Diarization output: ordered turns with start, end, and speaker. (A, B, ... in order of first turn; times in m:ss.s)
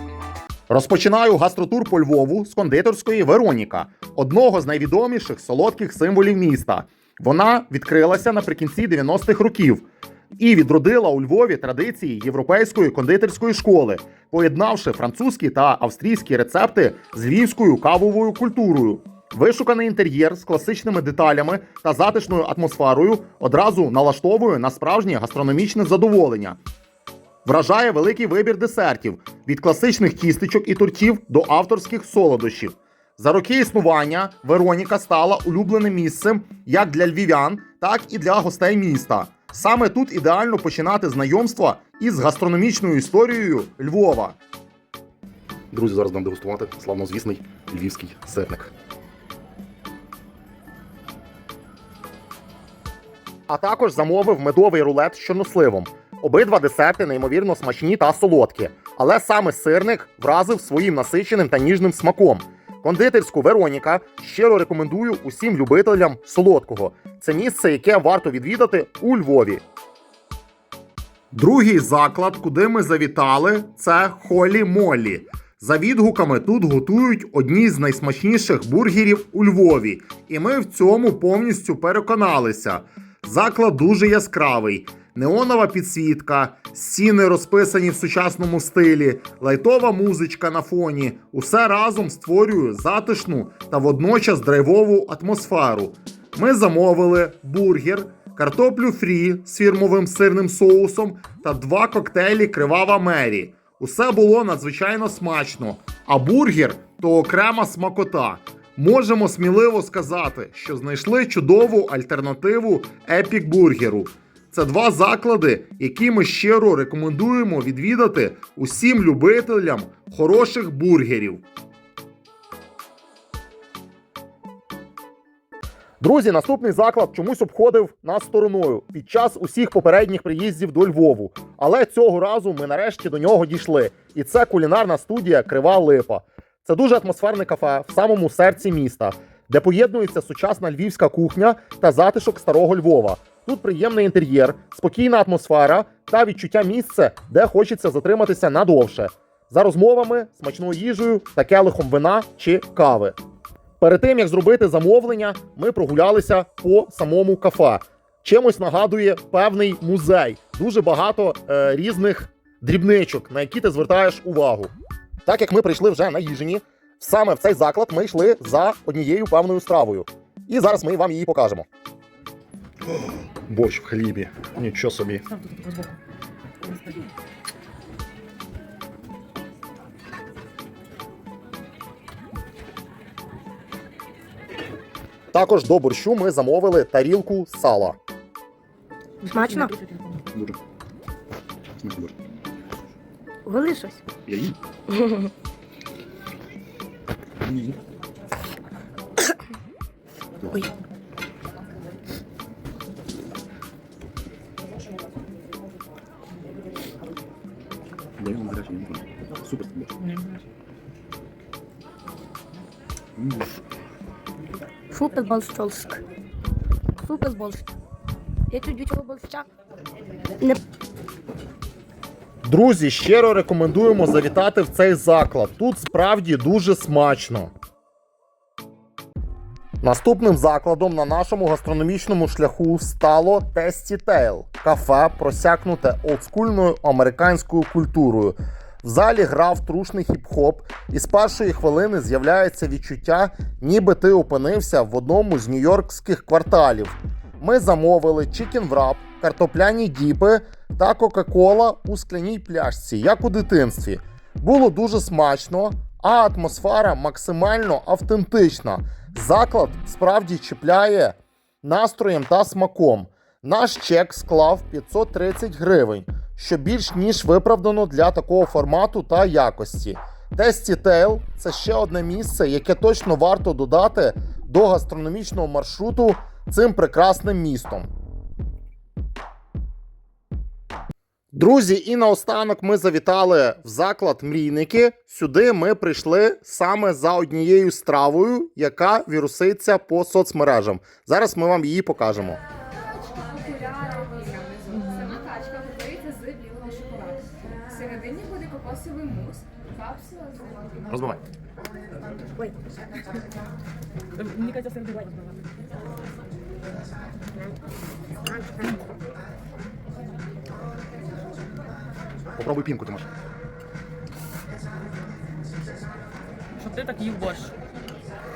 0:00.7-0:09.9 A
0:10.4-0:26.6 A
0:27.4-0:44.4 A
0:45.7-0:48.7 A
0:53.5-1:09.6 A
1:11.3-2:01.4 A
2:06.0-2:33.2 A
2:33.8-2:44.7 A
2:45.3-2:51.7 A
2:53.5-2:55.2 A
2:55.3-2:56.0 B
2:56.7-2:57.1 B
3:05.3-3:08.0 A
3:09.3-3:10.1 B
3:09.3-3:09.7 C
3:11.8-3:12.1 D
3:13.5-3:14.0 C
3:14.3-3:14.6 D
3:14.9-3:15.3 C
3:17.4-3:17.8 D
3:28.2-3:29.9 D
3:33.2-3:33.6 D
3:34.9-3:36.0 C
3:37.0-3:37.6 C
3:38.5-3:39.5 C
3:42.4-3:47.5 A
3:49.8-4:37.9 A
4:41.3-4:52.4 A
4:53.1-5:00.8 E
5:00.9-5:01.2 A
5:04.2-5:05.4 B
5:08.3-5:08.7 C
5:12.4-5:13.1 A
5:16.6-5:17.5 B